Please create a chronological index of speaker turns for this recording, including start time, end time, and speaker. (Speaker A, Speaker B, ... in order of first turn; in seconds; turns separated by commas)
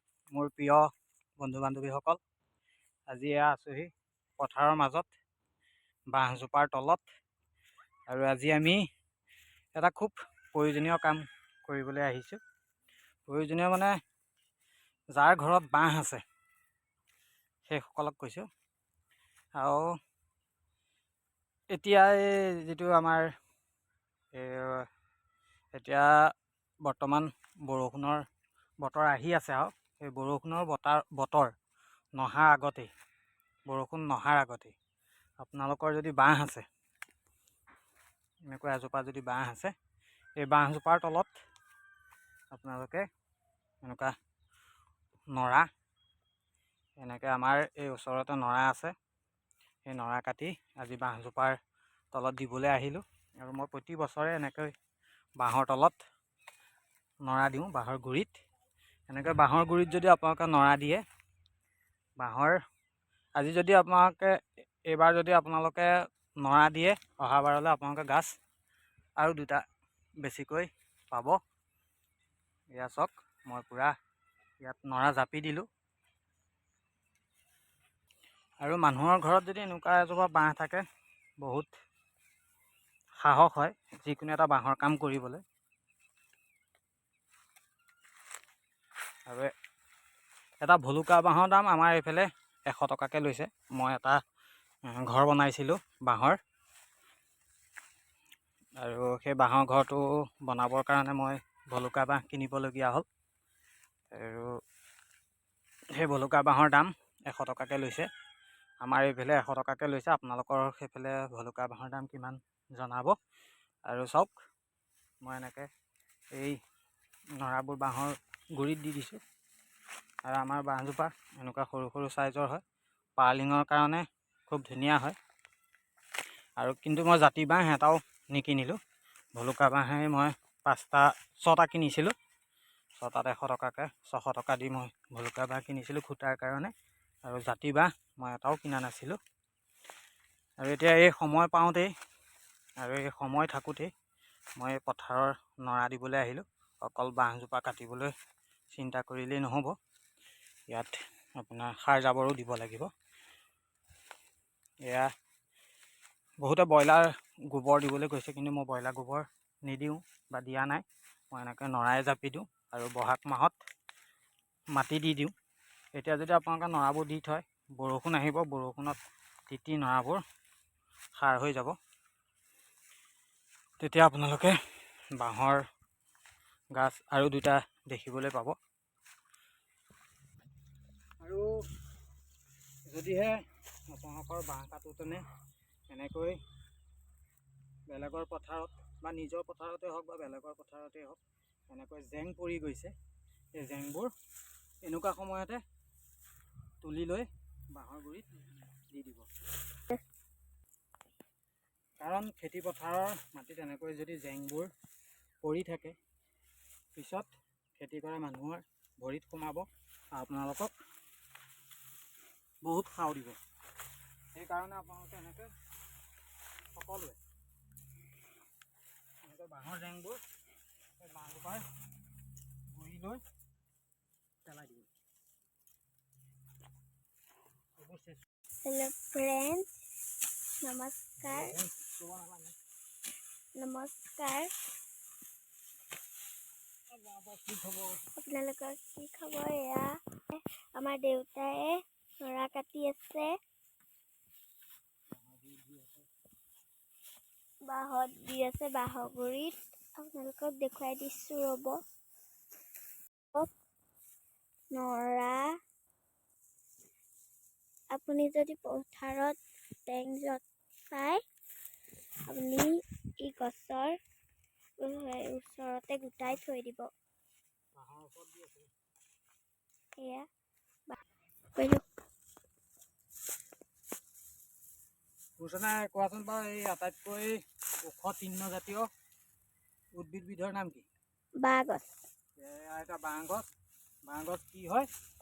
Speaker A: 0.3-2.2, Speaker A: 3.1-5.1, Speaker A: 6.1-7.0, Speaker A: 8.1-8.8, Speaker A: 9.8-12.4, Speaker A: 13.3-14.0, Speaker A: 15.2-16.2, Speaker A: 17.7-18.5, Speaker A: 19.6-19.9, Speaker A: 21.7-23.3, Speaker A: 24.3-24.9, Speaker A: 25.7-26.1, Speaker A: 26.8-28.2, Speaker A: 28.8-31.5, Speaker A: 32.2-32.9, Speaker A: 33.7-34.8, Speaker A: 35.4-36.7, Speaker A: 38.5-39.7, Speaker A: 40.4-41.3, Speaker A: 42.5-43.1, Speaker A: 43.8-44.1, Speaker A: 45.4-45.7, Speaker A: 47.0-48.9, Speaker A: 49.9-51.6, Speaker A: 52.1-54.7, Speaker A: 55.4-56.0, Speaker A: 57.3-58.3, Speaker A: 59.1-61.0, Speaker A: 62.2-62.6, Speaker A: 63.4-65.9, Speaker A: 66.4-68.3, Speaker A: 69.2-69.6, Speaker A: 70.2-71.4, Speaker A: 72.7-74.0, Speaker A: 74.6-75.7, Speaker A: 78.6-80.8, Speaker A: 81.4-81.7, Speaker A: 83.2-85.4, Speaker A: 90.6-94.2, Speaker A: 94.9-96.4, Speaker A: 98.8-103.0, Speaker A: 104.1-104.5, Speaker A: 106.0-108.1, Speaker A: 108.8-113.2, Speaker A: 113.9-114.3, Speaker A: 115.2-115.7, Speaker A: 117.4-119.2, Speaker A: 120.3-122.6, Speaker A: 123.2-125.2, Speaker A: 126.6-128.8, Speaker A: 129.4-132.1, Speaker A: 133.0-136.7, Speaker A: 137.2-139.2, Speaker A: 140.6-141.9, Speaker A: 142.8-143.9, Speaker A: 144.6-148.1, Speaker A: 148.7-149.8, Speaker A: 150.7-152.9, Speaker A: 156.4-163.6, Speaker A: 164.8-165.3, Speaker A: 165.9-170.2, Speaker A: 171.2-171.8, Speaker A: 173.8-174.6, Speaker A: 175.2-175.6, Speaker A: 176.8-178.6, Speaker A: 181.2-181.5, Speaker A: 182.9-185.2, Speaker A: 185.9-186.4, Speaker A: 187.9-192.9, Speaker A: 193.6-194.1, Speaker A: 194.8-195.6, Speaker A: 196.8-198.3, Speaker A: 198.9-199.3, Speaker A: 202.0-204.7, Speaker A: 205.4-206.0, Speaker A: 207.0-210.7, Speaker A: 212.6-213.4, Speaker A: 214.3-215.5, Speaker A: 216.8-217.2, Speaker A: 219.2-220.2, Speaker A: 221.0-221.7, Speaker A: 222.7-223.2, Speaker A: 224.4-224.9, Speaker A: 227.8-228.2, Speaker B: 228.6-229.8, Speaker B: 230.6-231.6, Speaker A: 231.2-232.6, Speaker B: 233.6-234.5, Speaker A: 236.9-238.0, Speaker B: 238.2-243.3, Speaker A: 245.1-246.1, Speaker B: 247.6-251.8, Speaker B: 254.7-255.6, Speaker B: 257.9-261.2, Speaker B: 262.3-264.0, Speaker B: 264.8-266.9, Speaker A: 267.8-268.7, Speaker B: 270.0-270.3, Speaker B: 271.6-271.8, Speaker A: 275.4-278.9, Speaker A: 280.0-280.9, Speaker B: 281.4-282.0, Speaker A: 282.4-283.5, Speaker A: 284.1-284.9